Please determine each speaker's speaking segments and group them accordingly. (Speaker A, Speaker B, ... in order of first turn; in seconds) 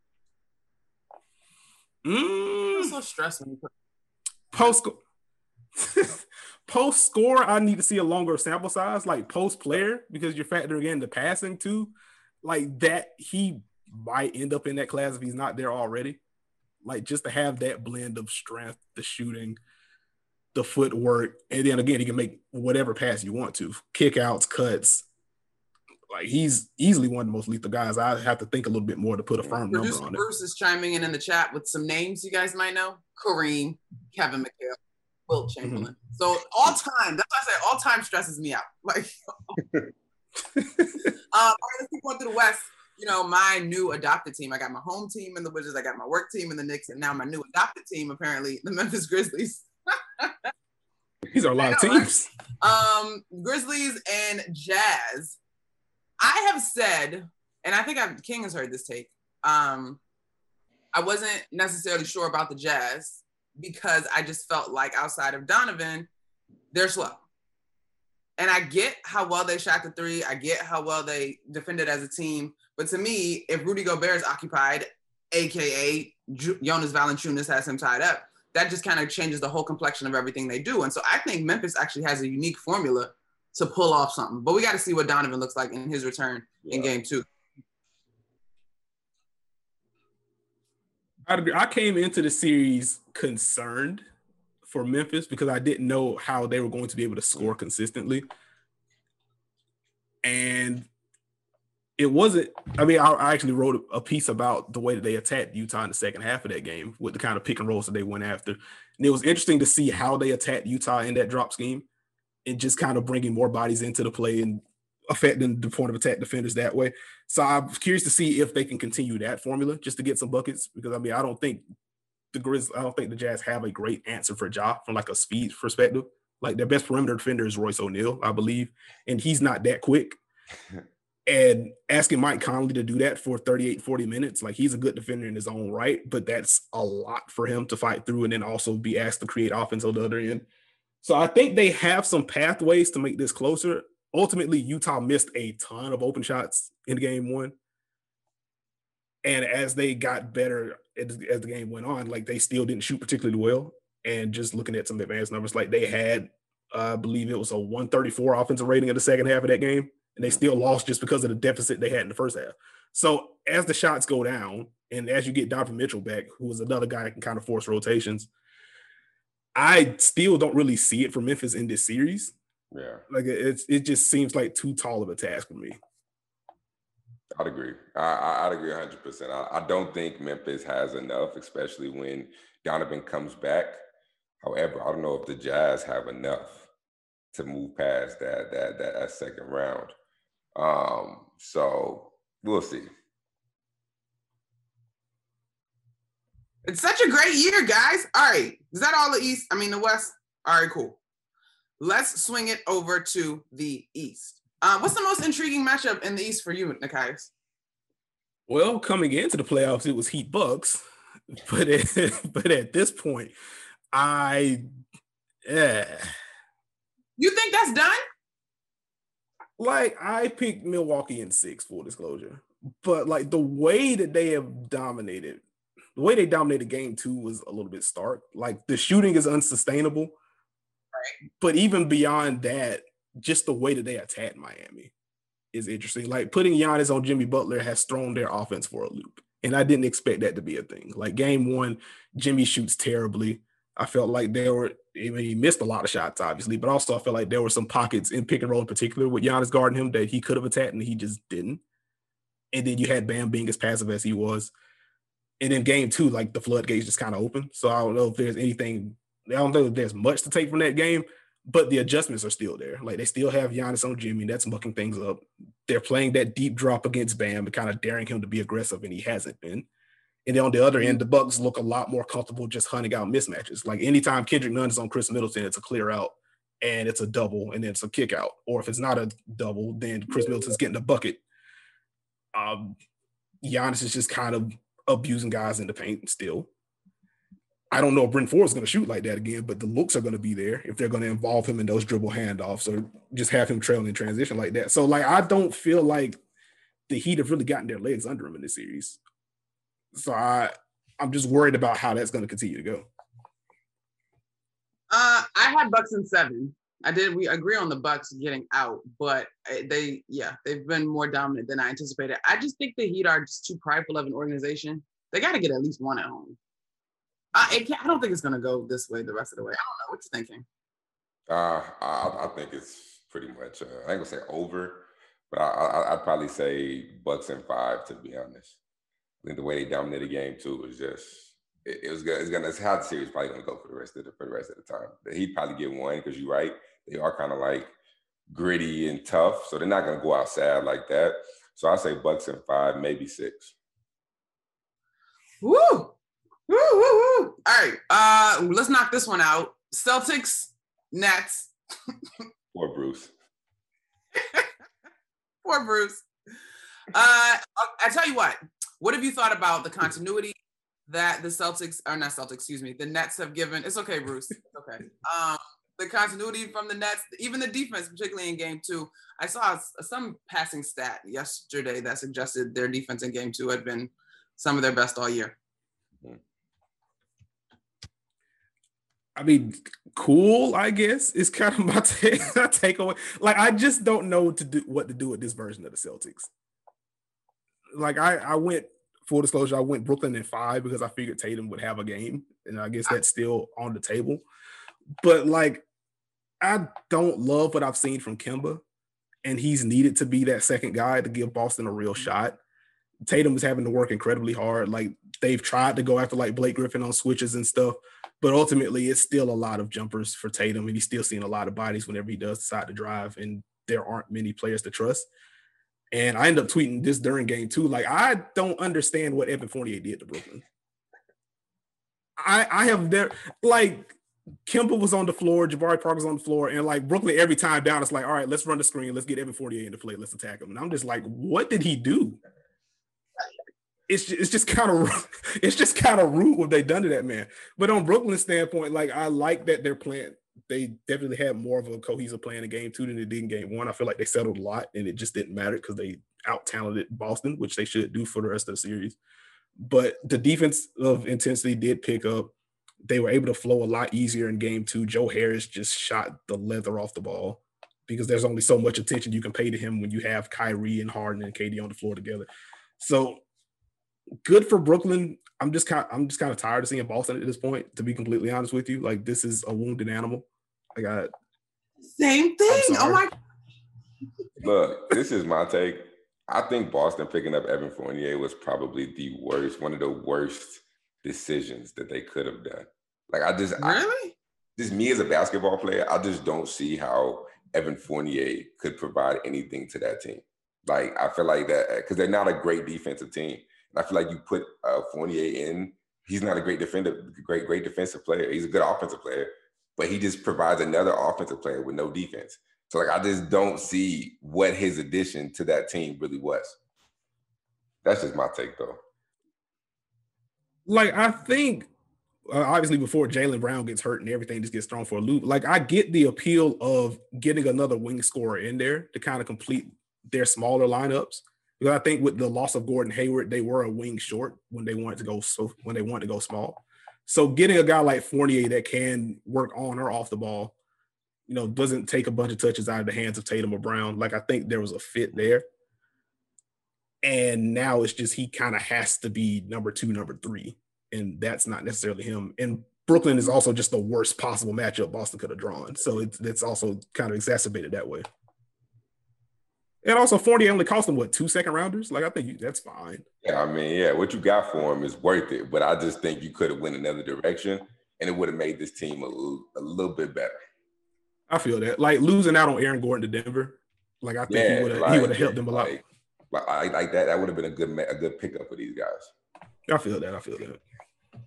Speaker A: 2.0-2.9, 4.5-5.0, 5.8-16.2, 16.8-19.6, 20.5-25.1, 26.1-30.2, 35.6-35.9, 40.5-40.9, 51.3-52.3, 91.3-94.0, 94.6-98.2, 100.2-100.9, 102.0-111.8, 112.5-121.6, 122.3-130.2, 131.3-140.4, 141.0-147.5, 149.2-168.3, 169.5-172.3, 173.1-175.8, 208.5-210.8, 211.3-213.3, 213.9-214.7, 215.4-216.1, 219.6-225.4, 225.9-230.2, 231.4-234.9, 235.5-251.6, 252.5-254.5, 255.4-269.7, 270.2-281.2, 282.3-282.7, 283.4-286.5, 287.7-296.2, 296.9-299.0, 299.9-302.9, 379.1-386.3, 387.7-394.2, 395.0-395.6, 396.4-398.6, 399.2-402.4, 403.1-415.1, 415.9-420.4, 422.2-432.2, 433.9-449.0, 449.6-452.3, 452.8-462.3, 462.8-463.2, 464.2-471.1, 472.5-473.0, 510.7-511.7, 512.3-530.5, 531.3-535.4, 537.0-548.1, 549.8-553.0, 561.3-565.7, 569.7-570.6
Speaker B: 2.7-3.7, 29.7-34.8, 35.3-39.6, 41.3-50.5, 51.6-52.1, 52.6-55.4, 56.2-60.0, 60.9-66.1, 66.7-67.2, 68.4-87.2, 196.6-201.0, 201.8-207.3, 217.2-218.0, 304.9-316.4, 317.3-320.4, 345.4-345.9, 346.5-351.5, 354.1-354.5, 355.4-356.0, 356.9-360.4, 360.9-375.4, 471.8-473.1, 483.6-484.1
Speaker C: 86.6-86.9, 172.7-173.0, 177.3-183.8, 184.4-186.7, 187.3-189.9, 190.6-192.9, 321.3-328.6, 329.2-337.7, 338.3-343.5, 352.5-353.1, 474.4-483.8, 484.6-506.6, 507.8-508.8, 553.2-560.4, 564.3-569.1